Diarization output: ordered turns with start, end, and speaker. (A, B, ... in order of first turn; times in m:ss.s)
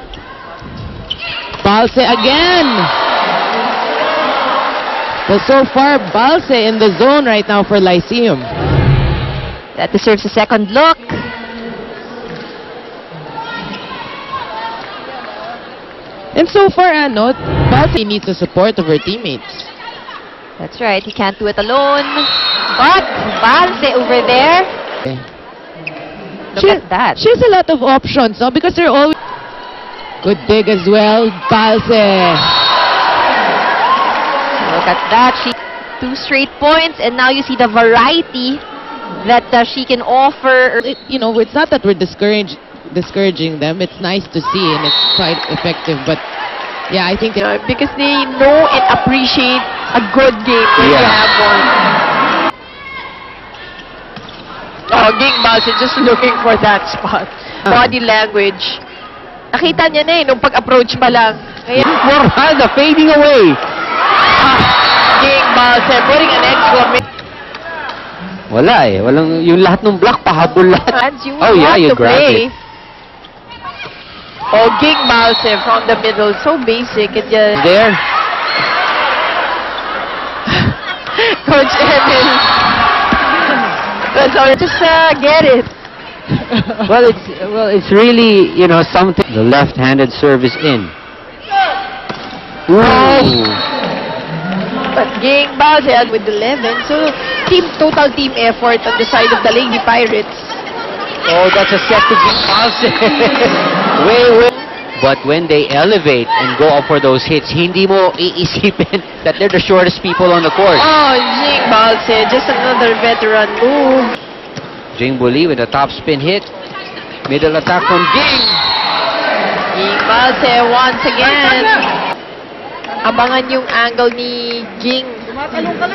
0:01.6-0:02.9 A
0:05.3-0:08.5 A
0:09.8-0:11.3 B
0:16.3-0:19.7 A
0:20.6-0:24.7 B
0:26.5-0:27.2 B
0:26.6-0:29.2 A
0:30.2-0:32.6 A
0:34.6-0:38.6 B
0:39.2-0:40.8 B
0:40.8-0:46.2 A
0:46.9-0:47.4 A
0:47.4-0:51.7 C
0:50.8-0:51.3 D
0:54.9-0:58.8 C
0:57.6-0:57.9 D
0:59.5-1:01.8 C
1:01.8-1:03.6 D
1:04.4-1:07.0 C
1:08.5-1:12.5 D
1:10.9-1:12.5 C
1:14.5-1:17.6 C
1:17.5-1:18.0 D
1:20.5-1:22.7 C
1:24.1-1:25.7 C
1:26.9-1:30.9 D
1:32.7-1:33.6 D
1:32.8-1:33.4 C
1:34.9-1:40.6 C
1:41.2-1:50.9 D
1:50.8-1:54.2 C
1:54.9-1:56.5 D
1:57.3-1:58.6 D
1:59.7-2:01.8 C
2:03.0-2:05.3 C